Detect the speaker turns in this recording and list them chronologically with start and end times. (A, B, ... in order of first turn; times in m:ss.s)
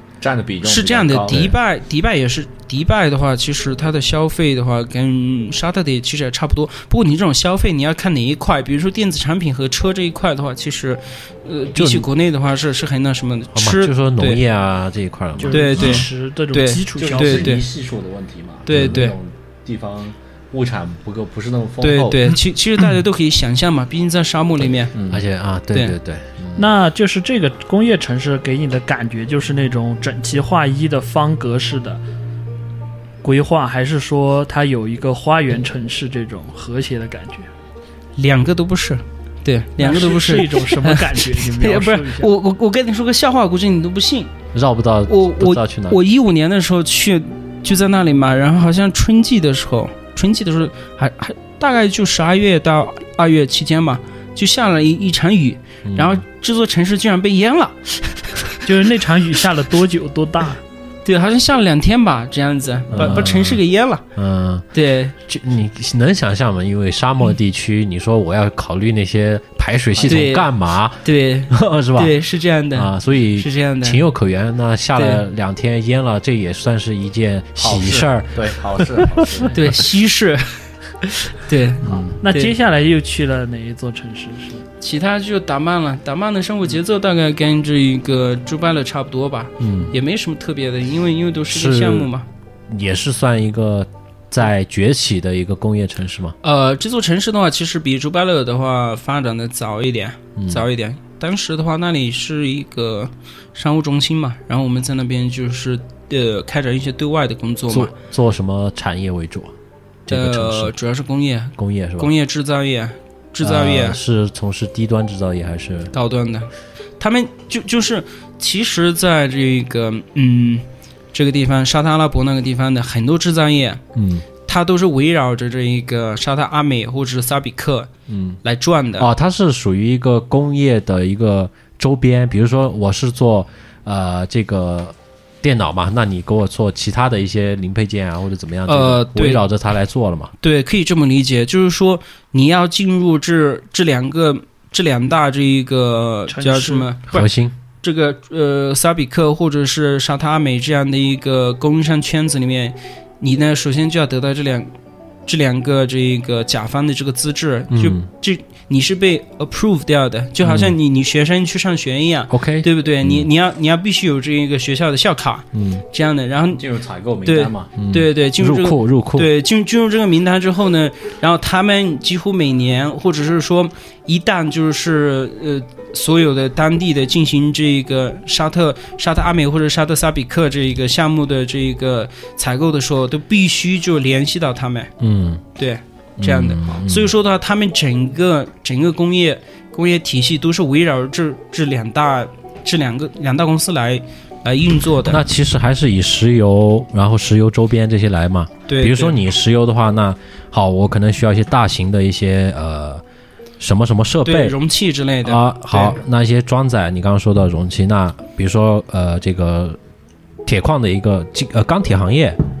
0:00.2-0:01.6 A
0:00.6-0:14.4 B
0:11.7-0:12.1 C
0:13.5-0:16.1 C
0:15.4-0:17.6 D
0:15.5-0:17.6 B
0:17.0-0:22.4 A
0:18.6-0:19.2 B
0:18.7-0:19.0 C
0:21.8-0:24.9 B
0:24.6-0:25.2 A
0:25.1-0:26.3 C
0:26.4-0:26.7 A
0:26.5-0:32.0 D
0:33.2-0:37.5 D
0:38.2-0:44.3 B
0:39.8-0:42.3 D
0:44.5-0:46.0 C
0:45.1-0:58.6 B
0:55.8-0:56.2 C
0:58.6-1:00.6 D
1:01.0-1:04.0 B
1:02.9-1:03.6 C
1:04.1-1:04.6 C
1:04.7-1:05.1 B
1:05.2-1:12.2 C
1:10.0-1:10.3 A
1:10.1-1:10.5 B
1:11.0-1:14.0 B
1:12.7-1:19.5 C
1:14.9-1:15.2 B
1:17.6-1:19.8 A
1:19.5-1:22.5 B
1:21.8-1:24.6 D
1:24.8-1:32.3 B
1:29.6-1:29.9 C
1:31.5-1:32.1 C
1:32.7-1:36.4 C
1:36.4-1:47.9 B
1:40.4-1:40.7 C
1:47.7-1:49.5 C
1:50.1-1:50.7 C
1:50.1-1:54.0 B
1:51.6-1:52.1 C
1:53.4-1:55.9 C
1:55.9-2:03.8 B
2:03.9-2:04.3 C
2:04.4-2:07.9 B
2:08.1-2:08.4 C
2:08.4-2:09.1 B
2:09.0-2:20.3 C
2:18.7-2:19.4 B
2:20.4-2:34.7 B
2:26.3-2:26.9 D
2:27.1-2:27.5 C
2:35.2-2:46.6 B
2:37.7-2:38.1 C
2:40.4-2:40.8 C
2:42.3-2:43.3 C
2:45.5-2:45.8 C
2:46.6-2:47.7 A
2:47.2-3:04.9 B
2:47.8-2:49.3 C
3:05.0-3:05.4 C
3:05.6-3:15.2 B
3:06.2-3:07.1 C
3:15.0-3:23.0 C
3:18.7-3:19.2 B
3:23.6-3:24.5 C
3:24.2-3:26.0 B
3:25.2-3:29.8 C
3:30.4-3:32.4 C